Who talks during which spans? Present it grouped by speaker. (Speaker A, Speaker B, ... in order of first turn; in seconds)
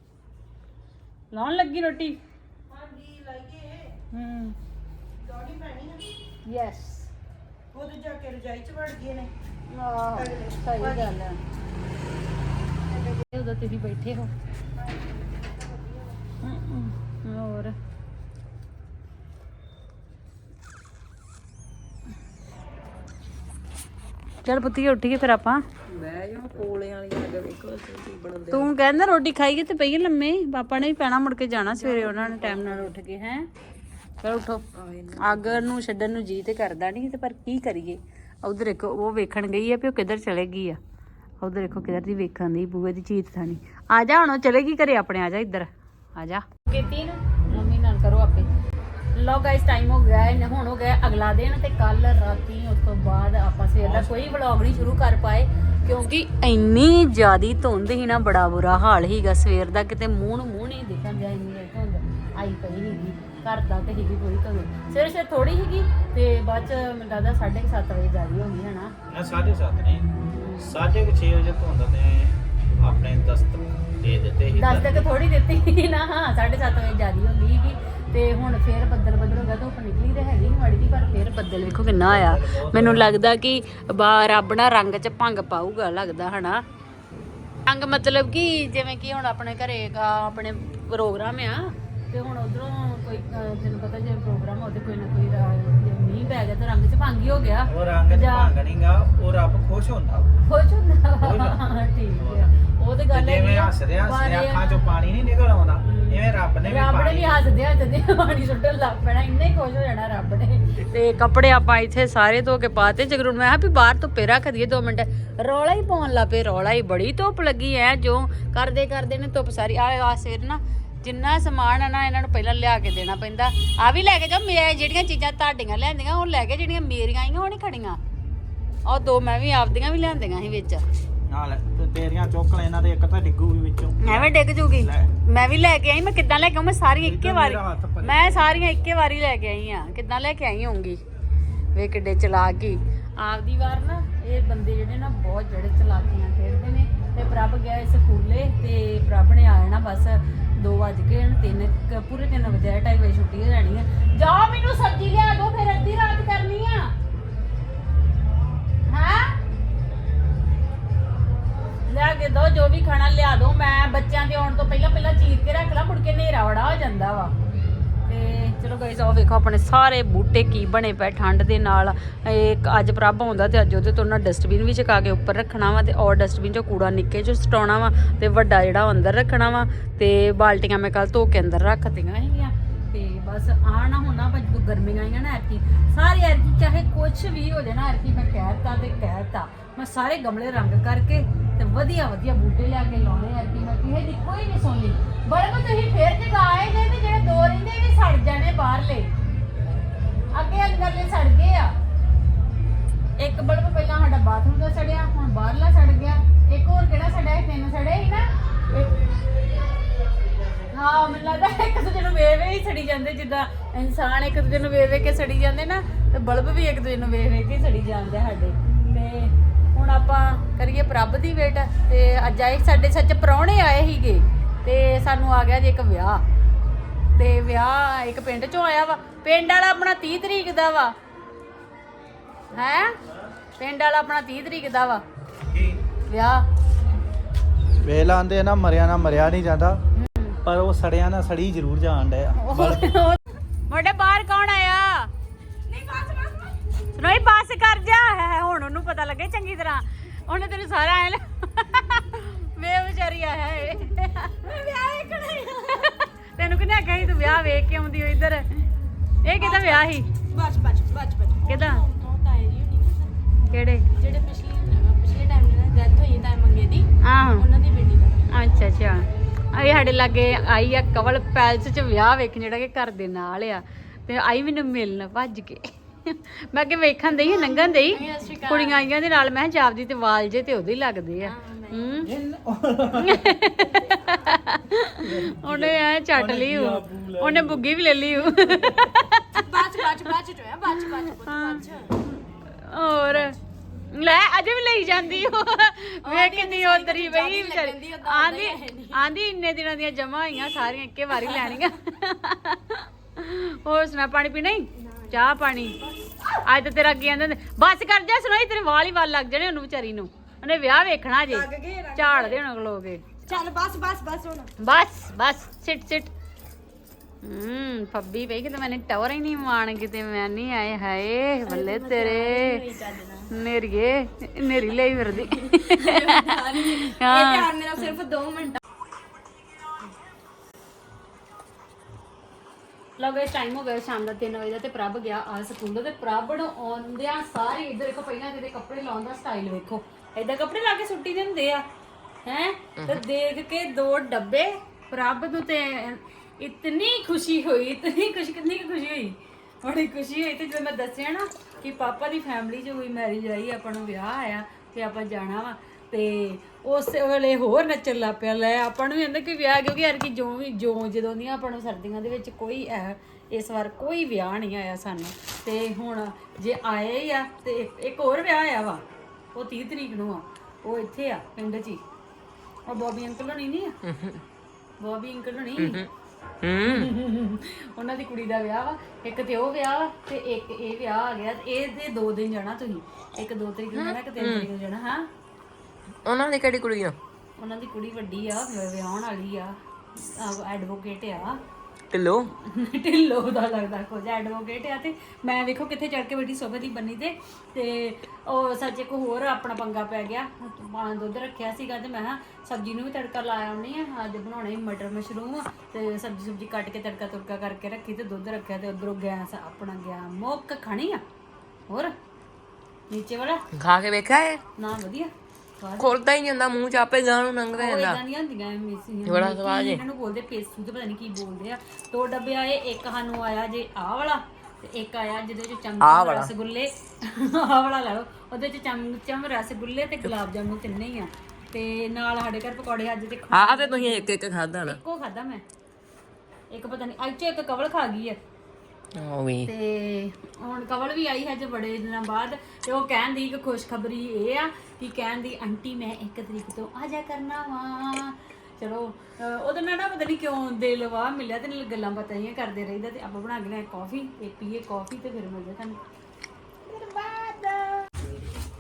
Speaker A: 1.3-2.2, 4.1-4.6, 6.5-7.1, 9.7-11.4, 13.3-14.3, 16.4-17.7, 24.4-25.6, 28.5-33.5, 34.2-34.6, 35.2-40.8, 41.4-48.5, 49.1-68.9, 70.4-70.7, 74.5-86.6, 87.7-98.5, 100.5-105.0, 105.8-128.0, 128.9-130.8, 134.0-141.0, 141.7-156.9, 158.9-159.4, 161.9-167.3, 168.1-199.1, 200.3-201.7, 203.2-209.0, 210.7-226.2, 227.2-230.9, 232.5-232.9, 233.6-235.0, 236.1-236.4, 240.0-240.4, 242.3-245.1, 246.9-258.6, 259.2-260.1, 261.4-261.9, 263.5-263.9, 267.0-267.5, 268.3-282.1, 283.0-289.6, 290.8-293.4, 293.9-305.8, 306.4-313.0, 314.6-316.1, 317.2-322.6, 323.3-327.5, 333.0-341.6, 342.2-368.8, 369.3-371.8, 372.7-373.7, 374.8-375.8, 376.7-385.1, 387.4-391.4, 392.4-411.0, 412.9-413.4, 414.6-415.9, 417.5-434.1, 434.6-435.4, 436.5-438.2, 439.4-455.8, 456.7-457.9
Speaker B: 2.7-3.9, 5.2-6.1, 7.7-9.3, 10.2-11.1, 12.9-13.2, 14.8-16.2, 311.3-312.2, 313.3-314.5
Speaker C: 25.9-28.7, 31.6-32.9, 34.7-35.7, 373.8-374.2, 375.6-375.9, 376.4-376.9, 383.7-384.5, 386.1-387.0, 391.9-392.3, 413.6-414.4, 415.8-418.0, 419.1-419.8, 425.8-426.3, 433.3-434.8, 439.0-439.5
Speaker D: 53.8-54.1, 69.1-70.1, 70.6-75.1, 81.9-83.1, 97.7-100.3, 101.2-101.7, 102.2-102.5, 103.1-107.4, 131.3-135.1, 137.0-138.6, 235.5-235.8, 237.8-239.8, 240.4-242.8, 282.0-283.4, 285.0-287.7
Speaker E: 245.7-246.6, 254.5-255.5, 259.4-263.1, 264.0-268.3, 277.1-278.8, 281.3-281.9, 289.4-291.9, 296.0-299.0, 304.8-306.0, 321.5-323.3, 325.3-328.6